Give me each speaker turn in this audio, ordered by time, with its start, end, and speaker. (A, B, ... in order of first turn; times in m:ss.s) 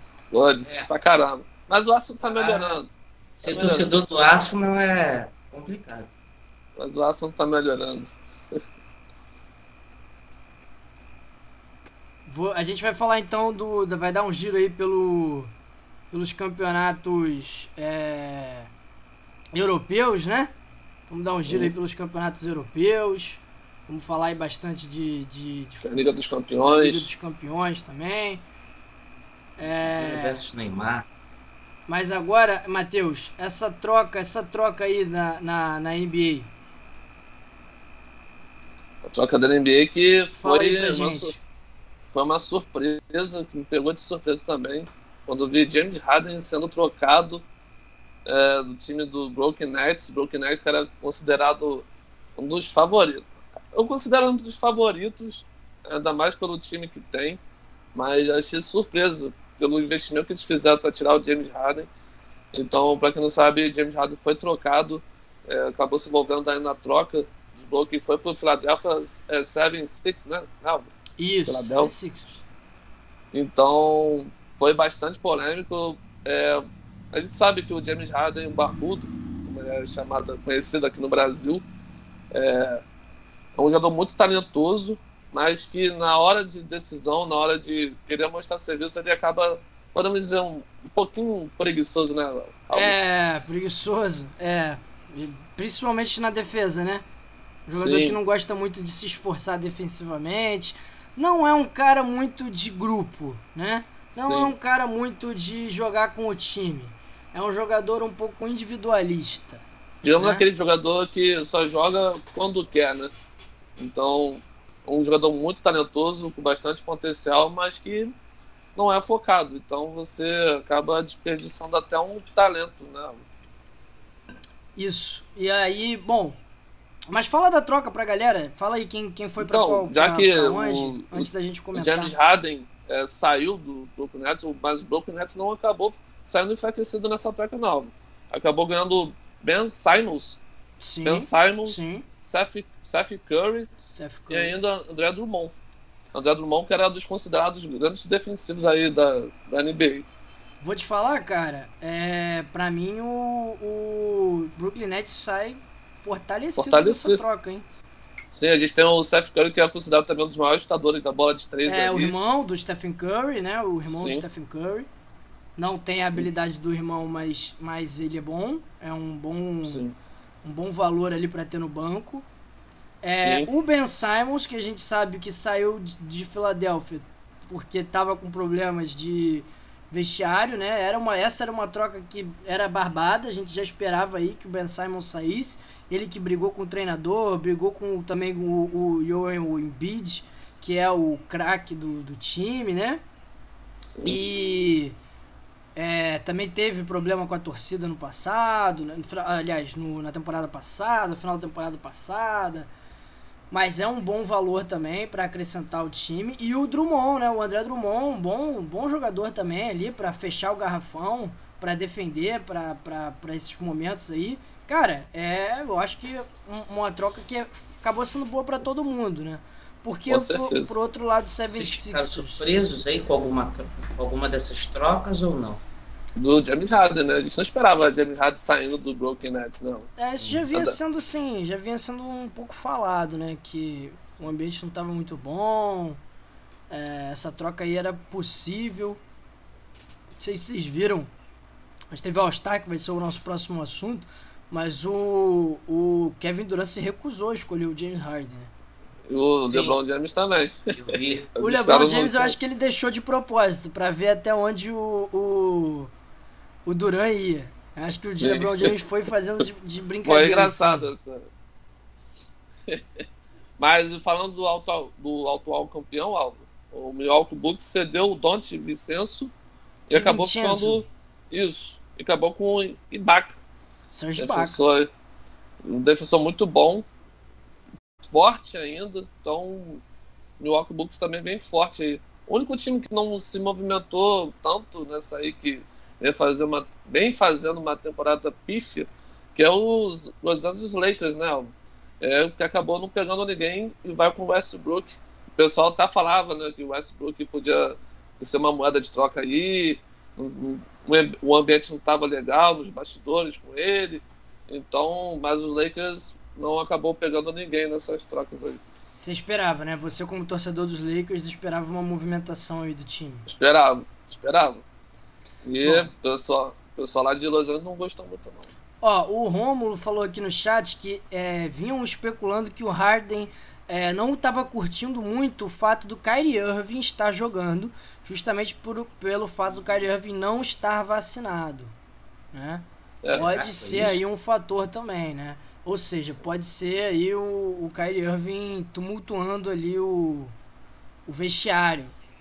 0:00.3-0:02.9 A
0:00.6-0:00.9 B
0:02.2-0:02.8 B
0:03.4-0:06.1 B
0:03.5-0:03.9 A
0:06.8-0:08.6 A
0:12.3-0:15.5 C
0:16.1-0:18.7 C
0:19.5-0:20.5 C
0:21.1-0:26.0 C
0:21.4-0:21.7 A
0:25.8-0:27.1 A
0:26.6-0:28.4 C
0:29.6-0:30.4 C
0:29.6-0:31.1 B
0:31.9-0:36.5 C
0:39.0-0:41.3 A
0:40.4-0:41.4 C
0:42.1-0:47.4 A
0:48.3-0:57.4 A
0:57.9-1:01.9 A
1:02.5-1:10.9 A
1:11.2-1:12.4 C
1:11.5-1:11.9 A
1:13.3-1:21.6 A
1:22.3-1:22.8 A
1:23.6-1:32.9 A
1:32.7-1:37.0 C
1:37.7-1:50.4 C
1:37.7-1:38.2 A
1:44.1-1:44.5 A
1:50.0-1:53.1 A
1:53.8-1:58.1 A
1:58.8-2:03.2 A
2:04.8-2:06.4 C
2:07.1-2:12.1 C
2:09.4-2:20.4 A
2:20.8-2:22.1 C
2:21.0-2:23.7 A
2:23.9-2:24.6 C
2:24.3-2:25.5 A
2:26.1-2:30.1 A
2:30.6-2:37.6 C
2:36.6-2:37.2 A
2:38.3-2:42.1 A
2:41.6-2:44.9 C
2:43.9-2:44.2 A
2:45.6-2:49.8 C
2:49.6-2:49.9 A
2:50.4-2:52.3 C
2:53.0-3:13.0 C
2:53.2-2:53.5 A
3:13.8-3:14.2 A
3:14.0-3:15.0 C
3:15.8-3:22.7 C
3:23.5-3:42.4 C
3:40.1-3:40.7 A
3:41.5-3:45.6 B
3:46.2-3:49.9 A
3:50.0-3:56.0 C
3:56.7-3:59.0 C
4:00.2-4:01.1 C
4:01.9-4:08.5 C
4:09.1-4:10.8 A
4:09.4-4:09.8 B
4:10.7-4:11.3 B
4:11.4-4:12.4 A
4:11.4-4:15.9 C
4:16.6-4:20.9 C
4:18.1-4:18.7 A
4:20.0-4:21.3 A
4:22.7-4:23.0 A
4:23.6-4:29.3 A
4:29.9-4:33.4 A
4:29.9-4:30.8 C
4:33.9-4:34.6 C
4:34.2-4:34.9 A
4:35.6-4:36.8 A
4:38.0-4:39.8 A
4:40.4-5:08.6 A
5:09.0-5:13.3 C
5:13.3-5:14.6 A
5:15.4-5:18.5 A
5:15.6-5:15.9 C
5:18.8-5:31.7 C
5:32.3-5:40.3 C
5:33.1-5:34.0 B
5:41.1-5:41.9 C